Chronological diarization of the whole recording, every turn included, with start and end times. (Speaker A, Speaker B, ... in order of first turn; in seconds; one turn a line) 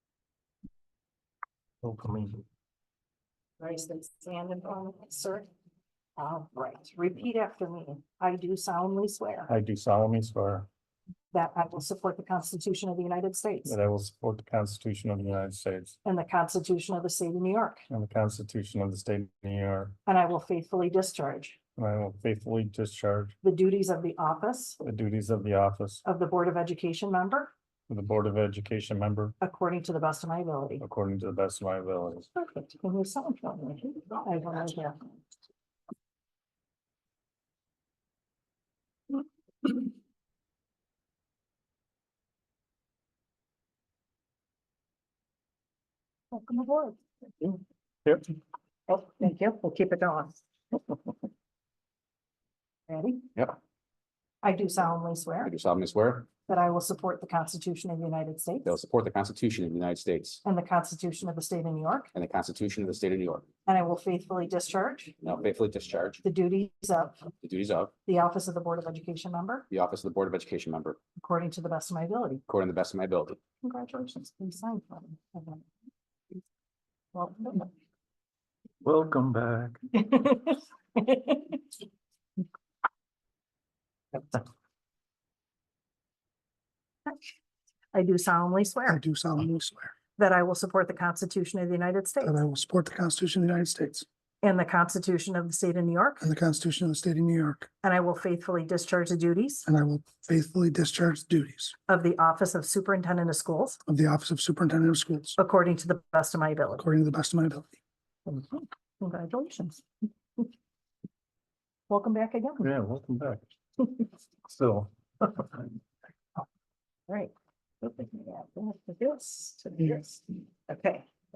Speaker A: 1.8-2.4
Speaker B: 3.6-5.5
Speaker B: 6.2-9.5
Speaker A: 9.5-10.7
Speaker B: 11.3-13.8
Speaker A: 13.7-16.0
Speaker B: 16.1-17.9
Speaker A: 17.9-19.9
Speaker B: 20.1-21.6
Speaker A: 21.8-23.4
Speaker B: 23.4-24.8
Speaker A: 24.8-26.0
Speaker B: 26.1-27.5
Speaker A: 27.9-29.4
Speaker B: 29.4-30.8
Speaker A: 30.8-32.3
Speaker B: 32.4-35.1
Speaker B: 46.3-47.0
Speaker B: 48.9-50.4
Speaker B: 52.9-53.3
Speaker B: 54.4-55.5
Speaker C: 55.4-56.3
Speaker B: 56.5-58.8
Speaker C: 58.6-60.4
Speaker B: 60.4-62.1
Speaker C: 62.1-63.5
Speaker B: 63.7-65.2
Speaker C: 65.2-66.2
Speaker B: 66.2-67.3
Speaker C: 67.4-67.9
Speaker B: 68.1-69.7
Speaker C: 69.7-71.0
Speaker B: 71.2-72.4
Speaker C: 72.5-73.4
Speaker B: 73.6-75.7
Speaker B: 77.1-77.7
Speaker A: 78.9-79.8
Speaker B: 80.0-81.6
Speaker B: 87.9-89.0
Speaker D: 88.9-89.9
Speaker B: 90.2-92.4
Speaker D: 92.2-94.0
Speaker B: 94.4-96.3
Speaker D: 96.2-97.7
Speaker B: 97.8-99.7
Speaker D: 99.7-101.8
Speaker B: 101.9-103.8
Speaker D: 103.9-105.4
Speaker B: 105.4-106.9
Speaker D: 106.8-107.8
Speaker B: 108.3-109.8
Speaker B: 111.9-112.7
Speaker A: 112.6-113.5
Speaker A: 114.5-115.4
Speaker B: 117.1-121.1